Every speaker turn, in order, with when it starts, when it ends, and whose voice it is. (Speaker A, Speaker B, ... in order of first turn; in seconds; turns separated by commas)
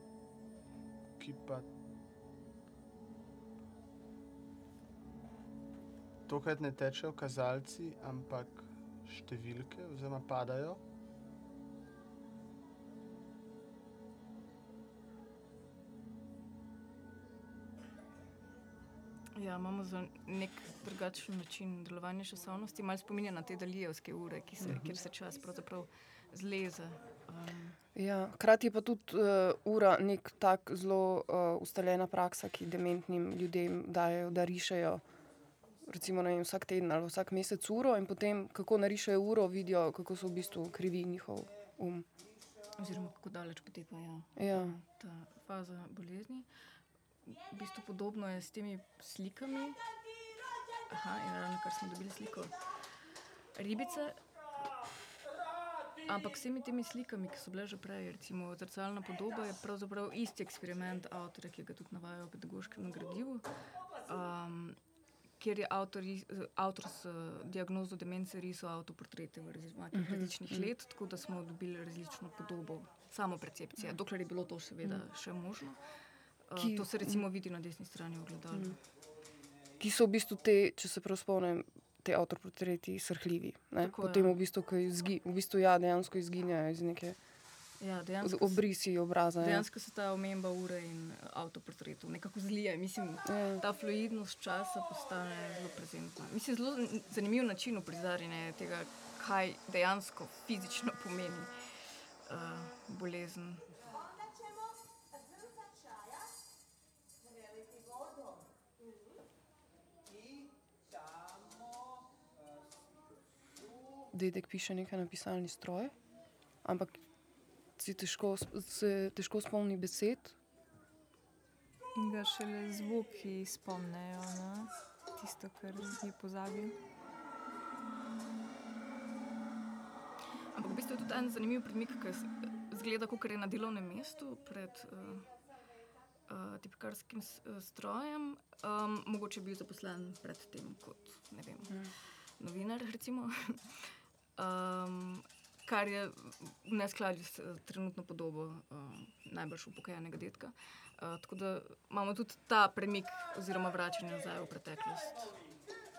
Speaker A: 1.2-1.7, Speaker A: 6.3-10.8, Speaker B: 19.4-27.8, Speaker C: 27.9-35.0, Speaker C: 35.8-42.1, Speaker B: 42.8-46.5, Speaker C: 44.4-44.7, Speaker B: 47.2-49.8, Speaker B: 50.9-52.6, Speaker B: 53.5-54.2, Speaker B: 56.0-63.5, Speaker B: 64.0-64.8, Speaker B: 65.4-75.8, Speaker C: 69.9-70.7, Speaker B: 76.5-78.8, Speaker C: 76.6-77.2, Speaker C: 79.8-87.2, Speaker B: 83.8-84.4, Speaker B: 87.8-88.6, Speaker C: 88.2-89.7, Speaker B: 89.4-103.7, Speaker C: 93.2-93.6, Speaker C: 114.1-116.0, Speaker C: 116.6-117.0, Speaker C: 117.8-120.3, Speaker D: 122.0-126.8, Speaker B: 130.5-135.3, Speaker B: 136.3-143.8, Speaker B: 144.4-155.3